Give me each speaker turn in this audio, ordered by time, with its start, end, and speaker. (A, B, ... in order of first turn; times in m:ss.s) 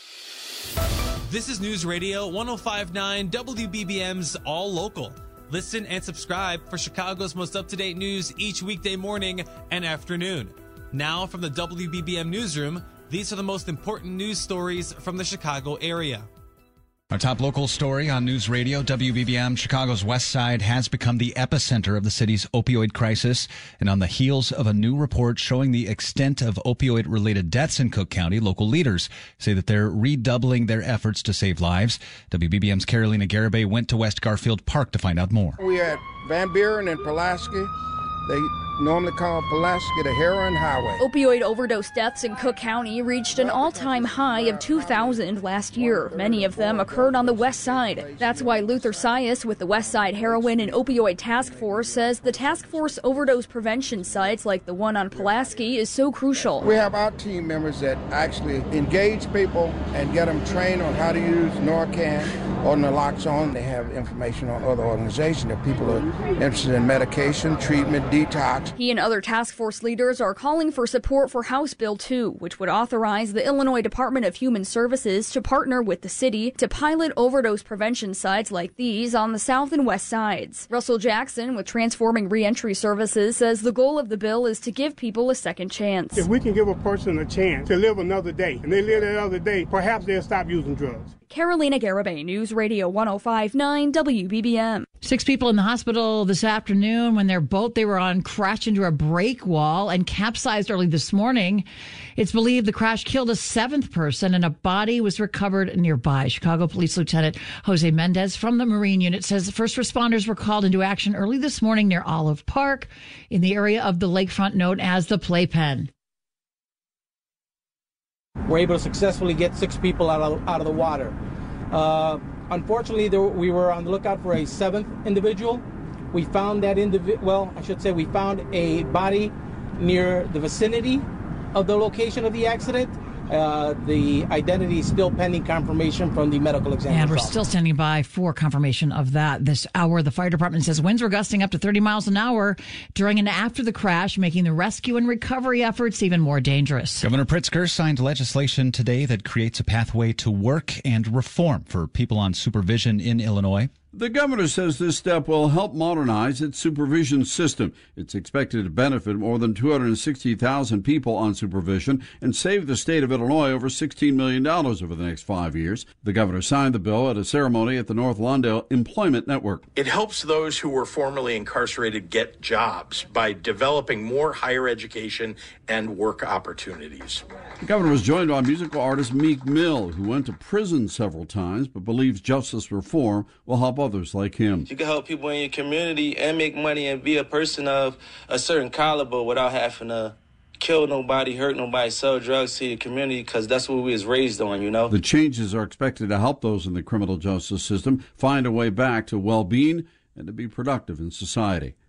0:01.3-0:16.3 A
0:17.1-0:35.6 B
0:35.6-0:37.7 C
0:38.2-0:41.0 C
0:41.0-0:56.7 D
0:43.3-0:54.4 C
0:55.1-0:55.6 C
0:56.6-1:08.7 C
1:08.8-1:26.2 D
1:26.2-1:31.1 E
1:31.3-1:34.8 D
1:35.0-1:55.9 F
1:58.4-2:01.1 G
2:01.7-2:17.4 G
2:16.9-2:27.1 F
2:27.0-2:33.7 B
2:33.9-2:49.6 H
2:49.7-2:57.2 I
2:57.6-3:04.7 H
3:04.6-3:14.9 J
3:14.9-3:21.7 H